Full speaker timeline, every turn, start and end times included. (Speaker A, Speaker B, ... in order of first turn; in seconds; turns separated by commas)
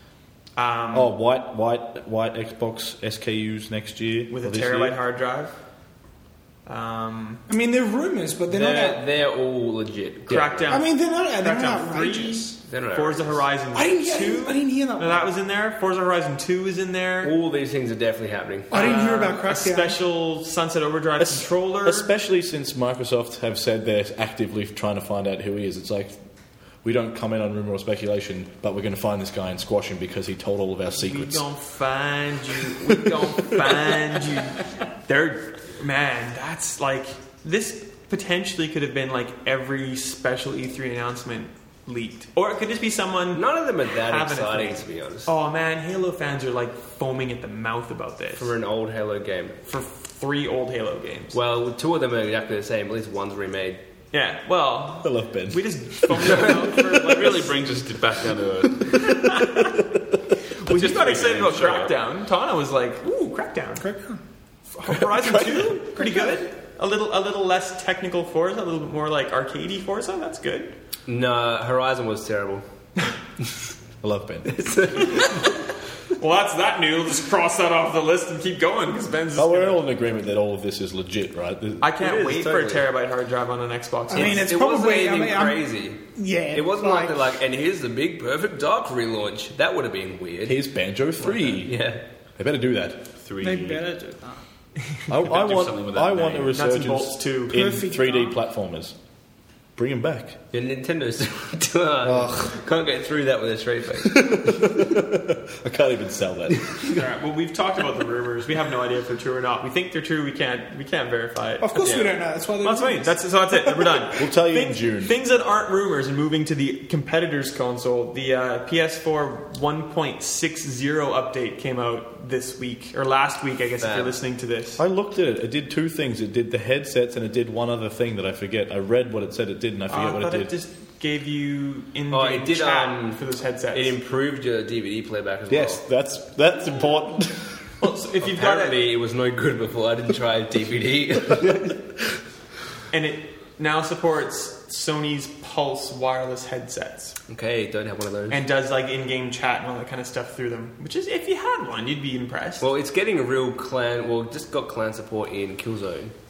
Speaker A: 0.6-1.1, Speaker B: 0.9-5.0, Speaker A: 4.3-5.5, Speaker A: 6.7-7.4, Speaker C: 7.5-9.0, Speaker D: 8.5-10.8, Speaker A: 10.3-17.3, Speaker C: 10.7-12.6, Speaker D: 12.6-13.4, Speaker C: 13.7-15.3, Speaker D: 17.2-19.1, Speaker C: 18.7-20.0, Speaker A: 18.7-22.1, Speaker B: 21.2-26.1, Speaker B: 26.8-31.4, Speaker A: 31.0-48.5, Speaker D: 43.3-45.3, Speaker D: 48.3-49.6, Speaker A: 49.6-51.4, Speaker D: 51.3-53.8, Speaker A: 54.1-57.5, Speaker B: 55.0-57.0, Speaker E: 57.0-59.1, Speaker B: 58.9-60.0, Speaker A: 59.0-59.8, Speaker A: 60.6-63.8, Speaker E: 60.6-61.9, Speaker C: 63.8-64.2, Speaker A: 64.7-70.7, Speaker B: 64.9-66.0, Speaker D: 71.1-72.6, Speaker B: 74.0-74.6, Speaker D: 74.5-75.5, Speaker A: 76.2-79.8, Speaker B: 79.3-81.9, Speaker A: 81.8-84.5, Speaker D: 82.0-82.9, Speaker C: 84.1-87.2, Speaker D: 84.1-90.6, Speaker B: 90.5-91.8, Speaker D: 91.2-92.0, Speaker B: 92.3-93.1, Speaker E: 93.2-93.8, Speaker C: 93.4-95.1, Speaker B: 95.1-99.0, Speaker E: 95.1-96.6, Speaker A: 96.5-97.6, Speaker C: 97.5-98.3, Speaker B: 99.8-100.4, Speaker D: 100.5-104.8, Speaker B: 102.0-102.5, Speaker B: 104.0-107.0, Speaker A: 106.8-111.9, Speaker C: 111.6-114.0, Speaker D: 111.8-112.1, Speaker A: 112.6-124.8, Speaker B: 114.2-115.1, Speaker D: 123.8-124.1, Speaker B: 124.8-130.5, Speaker A: 129.9-133.9, Speaker D: 132.1-133.2, Speaker D: 133.7-135.8, Speaker B: 135.5-137.6, Speaker A: 137.8-138.8, Speaker D: 138.2-141.8, Speaker A: 142.9-147.2, Speaker D: 147.3-148.4, Speaker A: 148.3-152.7, Speaker D: 152.6-156.1